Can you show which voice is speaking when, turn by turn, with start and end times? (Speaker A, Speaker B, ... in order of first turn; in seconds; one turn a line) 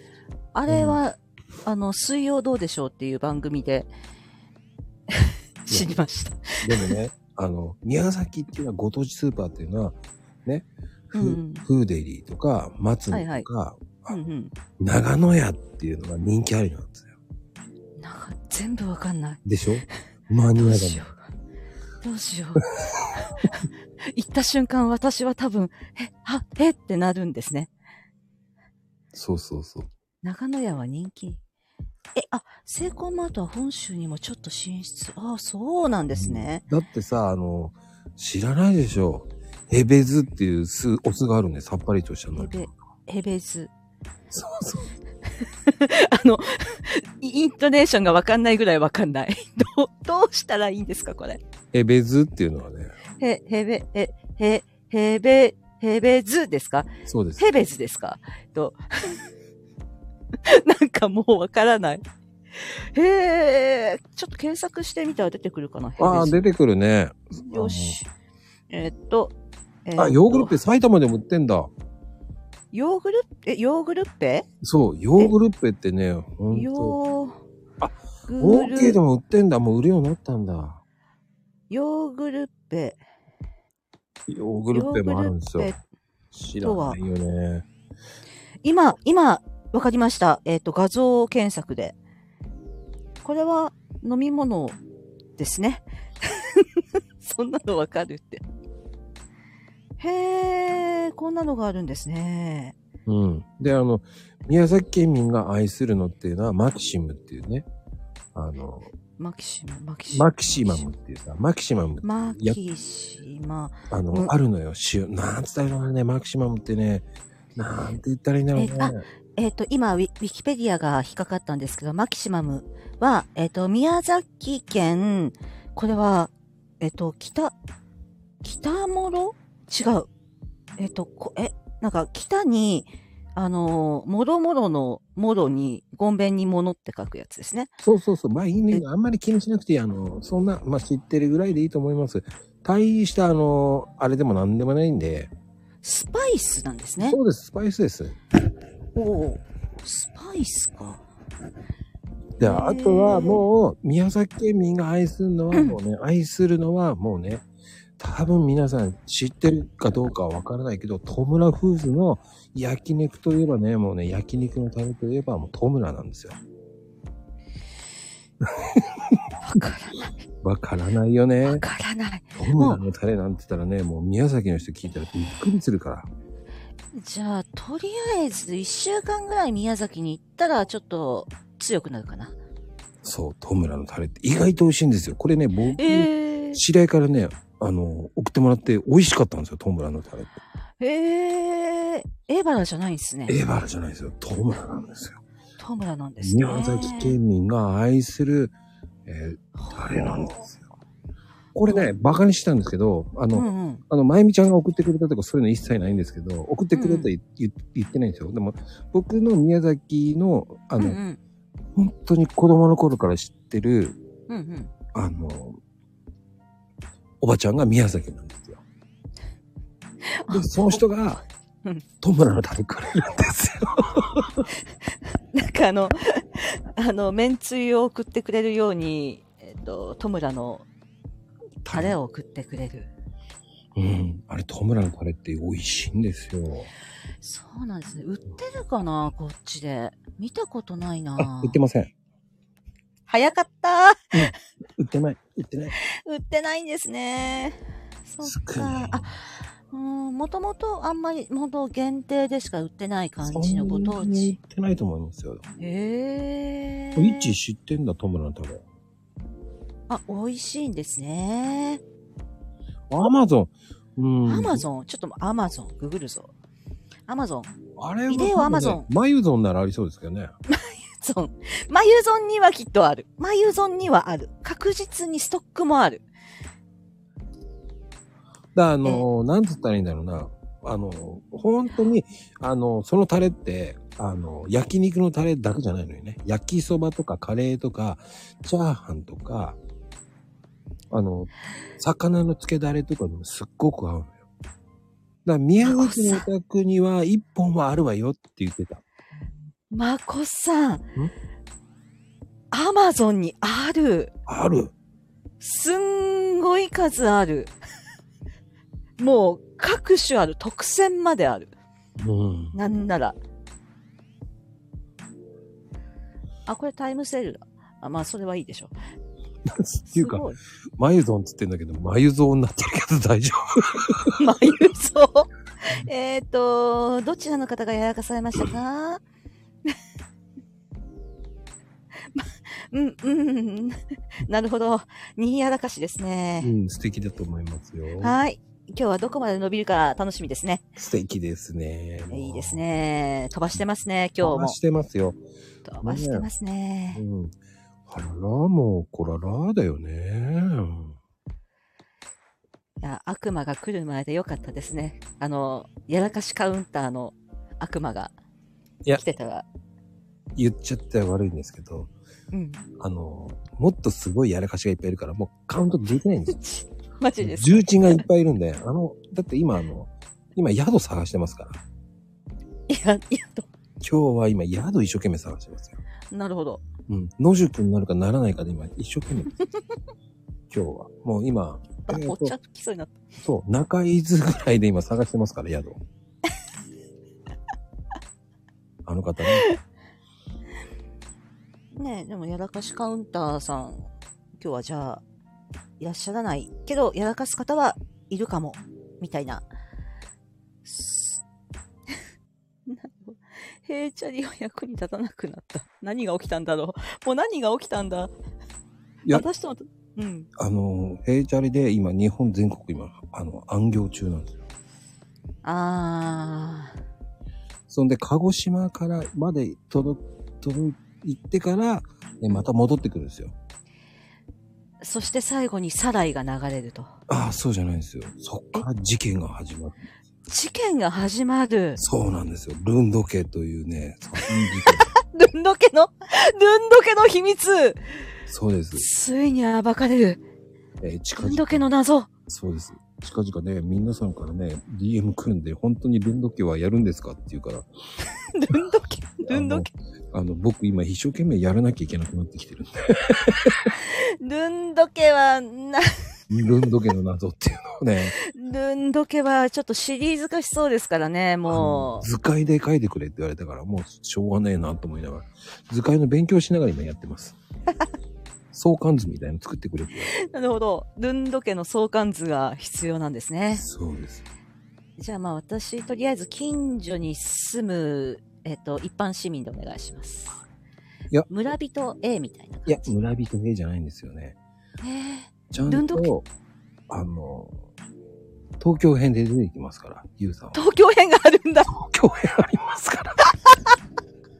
Speaker A: 0.5-3.9
Speaker B: 0.7-1.0
Speaker A: 5.2-6.9
Speaker B: 6.6-14.1
Speaker A: 11.1-11.6
Speaker A: 13.1-13.5
Speaker A: 14.1-14.5
Speaker B: 14.8-17.1
Speaker A: 18.0-19.4
Speaker B: 19.4-21.0
Speaker A: 20.6-21.2
Speaker A: 22.0-22.6
Speaker A: 24.1-27.7
Speaker B: 29.1-29.9
Speaker A: 30.2-31.4
Speaker A: 32.1-36.6
Speaker B: 36.1-42.7
Speaker A: 42.4-43.7
Speaker B: 44.3-44.9
Speaker A: 45.7-51.4
Speaker B: 51.7-52.9
Speaker A: 53.2-59.2
Speaker B: 57.0-57.5
Speaker A: 60.4-62.0
Speaker A: 62.9-66.4
Speaker B: 66.0-68.0
Speaker A: 67.4-68.1
Speaker A: 68.7-70.5
Speaker B: 70.0-71.7
Speaker A: 72.7-74.5
Speaker B: 74.6-77.0
Speaker A: 76.5-77.4
Speaker B: 77.8-80.8
Speaker A: 78.3-79.0
Speaker A: 81.7-83.0
Speaker B: 84.3-85.8
Speaker A: 84.7-85.8
Speaker B: 86.3-87.7
Speaker A: 86.6-87.0
Speaker A: 88.6-92.0
Speaker A: 93.2-94.8
Speaker A: 95.4-96.7
Speaker A: 97.2-98.4
Speaker A: 100.0-102.7
Speaker B: 103.0-107.7
Speaker B: 108.3-108.9
Speaker A: 109.2-110.9
Speaker B: 110.1-112.6
Speaker A: 112.0-114.3
Speaker B: 113.9-119.0
Speaker A: 118.5-127.5
Speaker A: 128.4-130.1
Speaker A: 130.8-137.7
Speaker B: 137.8-145.3
Speaker A: 145.8-147.2
Speaker B: 147.0-148.2
Speaker A: 148.9-151.0
Speaker A: 152.4-153.4
Speaker B: 152.4-157.4
Speaker A: 155.5-155.8
Speaker B: 158.0-166.4
Speaker B: 168.4-169.3
Speaker A: 169.4-170.1
Speaker B: 170.4-171.6
Speaker A: 171.4-172.8
Speaker B: 172.4-176.1
Speaker A: 176.9-182.3
Speaker B: 183.0-190.3
Speaker A: 185.8-186.6
Speaker A: 190.8-193.3
Speaker B: 193.3-195.2
Speaker A: 195.6-197.2
Speaker B: 196.2-198.5
Speaker B: 199.1-200.6
Speaker A: 199.6-200.4
Speaker B: 201.5-211.0
Speaker A: 203.3-203.8
Speaker A: 206.7-207.1
Speaker A: 210.8-211.2
Speaker B: 211.7-214.0
Speaker A: 214.3-214.7
Speaker B: 214.9-215.6
Speaker B: 217.2-218.6
Speaker A: 220.1-220.8
Speaker B: 220.3-221.2
Speaker B: 222.0-224.4
Speaker A: 225.3-230.7
Speaker B: 231.6-232.0
Speaker A: 231.7-232.9
Speaker B: 233.7-236.7
Speaker A: 237.2-241.6
Speaker B: 241.2-241.9
Speaker A: 243.1-244.1
Speaker B: 244.1-245.7
Speaker A: 246.0-249.1
Speaker B: 248.2-249.0
Speaker A: 249.7-254.4
Speaker B: 253.2-255.4
Speaker A: 255.6-257.3
Speaker B: 256.9-258.6
Speaker A: 259.9-261.8
Speaker B: 262.9-264.6
Speaker A: 264.2-266.3
Speaker A: 267.1-267.5
Speaker B: 267.8-270.3
Speaker A: 268.1-268.9
Speaker A: 270.5-276.0
Speaker B: 278.5-289.6
Speaker B: 290.9-294.2
Speaker B: 295.2-298.8
Speaker A: 295.6-296.2
Speaker A: 299.7-300.8
Speaker A: 302.5-304.1
Speaker B: 304.3-304.7
Speaker A: 305.4-307.5
Speaker A: 309.0-311.5
Speaker B: 312.0-312.5
Speaker A: 312.5-313.2
Speaker A: 316.4-318.7
Speaker B: 319.5-320.2
Speaker A: 319.9-320.4
Speaker B: 320.8-324.2
Speaker A: 324.2-329.0
Speaker A: 332.1-336.5
Speaker B: 336.4-338.2
Speaker A: 338.0-340.6
Speaker B: 340.8-342.6
Speaker A: 342.1-344.6
Speaker B: 344.2-345.2
Speaker A: 345.6-347.0
Speaker B: 345.8-346.3
Speaker B: 346.9-347.3
Speaker B: 347.9-350.9
Speaker A: 352.8-358.1
Speaker A: 358.9-359.4
Speaker B: 360.3-361.9
Speaker A: 362.3-362.6
Speaker B: 362.8-366.4
Speaker A: 366.3-368.0
Speaker B: 367.2-371.6
Speaker A: 372.7-373.5
Speaker B: 373.8-375.8
Speaker A: 376.1-376.6
Speaker B: 376.9-379.3
Speaker B: 380.5-382.3
Speaker A: 381.9-383.0
Speaker B: 383.2-385.8
Speaker B: 388.9-389.5
Speaker A: 391.7-395.0
Speaker A: 395.8-399.4
Speaker A: 400.6-401.2
Speaker A: 402.7-408.1
Speaker A: 409.1-410.3
Speaker B: 410.4-414.4
Speaker A: 415.4-416.7
Speaker B: 417.7-423.3
Speaker A: 424.8-426.9
Speaker B: 427.1-429.8
Speaker A: 430.3-431.8
Speaker B: 431.8-434.9
Speaker A: 435.0-437.8
Speaker B: 438.3-438.9
Speaker A: 438.7-440.2
Speaker B: 440.8-441.7
Speaker A: 441.2-442.1
Speaker B: 442.3-447.7
Speaker A: 448.3-449.7
Speaker B: 449.2-453.7
Speaker A: 453.9-455.8
Speaker B: 456.3-458.1
Speaker A: 458.2-462.1
Speaker B: 461.5-467.4
Speaker B: 468.5-470.1
Speaker A: 470.2-473.6
Speaker B: 473.5-474.2
Speaker A: 475.0-480.4
Speaker A: 481.3-482.9
Speaker B: 482.6-484.4
Speaker A: 484.8-486.1
Speaker B: 485.5-486.3
Speaker B: 486.9-487.6
Speaker B: 488.6-490.6
Speaker A: 490.5-491.7
Speaker B: 491.7-493.2